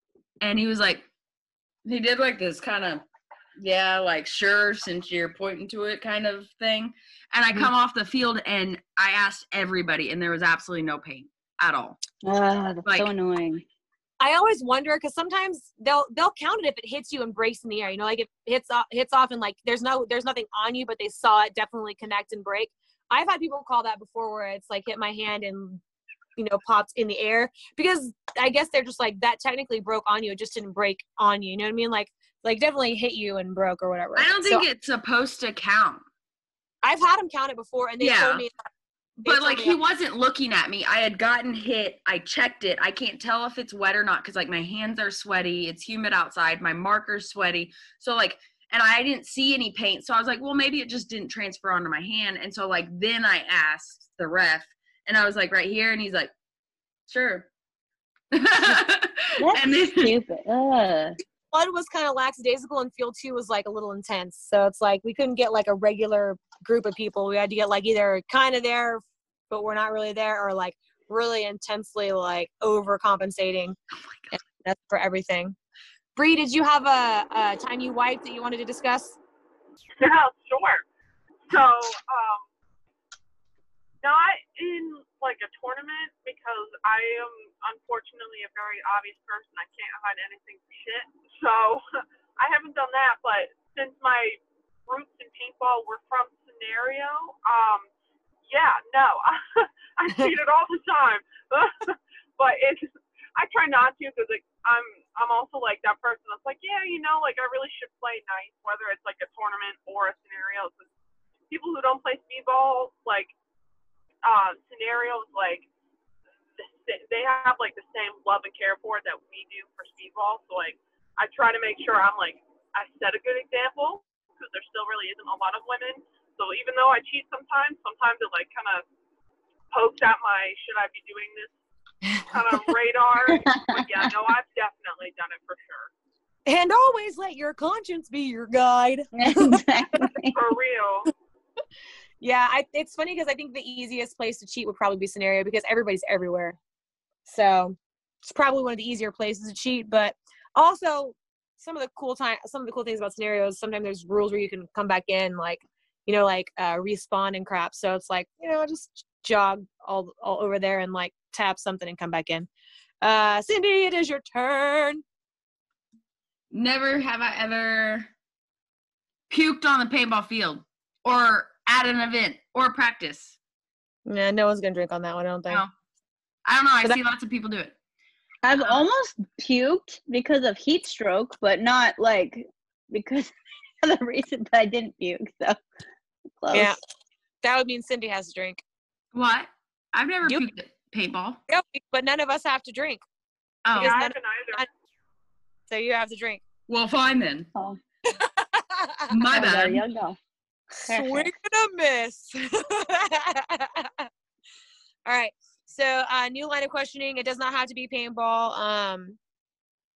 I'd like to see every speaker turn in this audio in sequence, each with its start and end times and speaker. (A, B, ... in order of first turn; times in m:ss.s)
0:00.4-0:01.0 A
0:01.8-0:03.0 A
0:03.6-0:12.0 A
0:12.2-0:13.6 B
0:12.8-0:13.1 A
0:14.2-0:25.8 C
0:26.4-0:34.6 C
0:34.2-0:36.0 A
0:36.8-0:38.5 C
0:38.0-0:38.4 A
0:39.2-0:39.8 C
0:39.2-0:56.3 A
0:57.1-0:57.5 A
0:58.3-1:00.1 A
0:59.4-1:01.2 B
1:01.5-1:13.8 C
1:14.3-1:15.6 C
1:16.2-1:19.2 C
1:20.0-1:20.8 D
1:21.5-1:22.5 D
1:24.0-1:37.9 D
1:38.4-1:50.9 D
1:51.5-1:53.3 D
1:54.2-1:55.7 D
1:56.6-2:08.8 D
2:09.7-2:11.5 D
2:12.2-2:15.9 D
2:13.3-2:13.8 B
2:16.5-2:20.0 C
2:19.2-2:20.3 B
2:20.3-2:21.1 D
2:22.2-2:26.6 C
2:27.2-2:42.5 C
2:43.0-2:45.0 C
2:46.5-2:48.1 A
2:49.3-2:53.3 A
2:54.0-2:55.6 C
2:56.4-2:57.7 A
2:58.4-3:05.6 B
3:06.4-3:06.8 B
3:06.5-3:06.8 C
3:07.4-3:08.6 C
3:09.1-3:11.4 A
3:11.5-3:13.0 C
3:13.6-3:14.0 A
3:13.7-3:14.6 D
3:13.7-3:14.7 C
3:15.7-3:16.4 C
3:16.7-3:17.5 A
3:18.1-3:19.2 C
3:19.1-3:19.8 A
3:19.3-3:20.2 B
3:20.8-3:21.3 B
3:20.9-3:24.1 C
3:25.0-3:29.2 C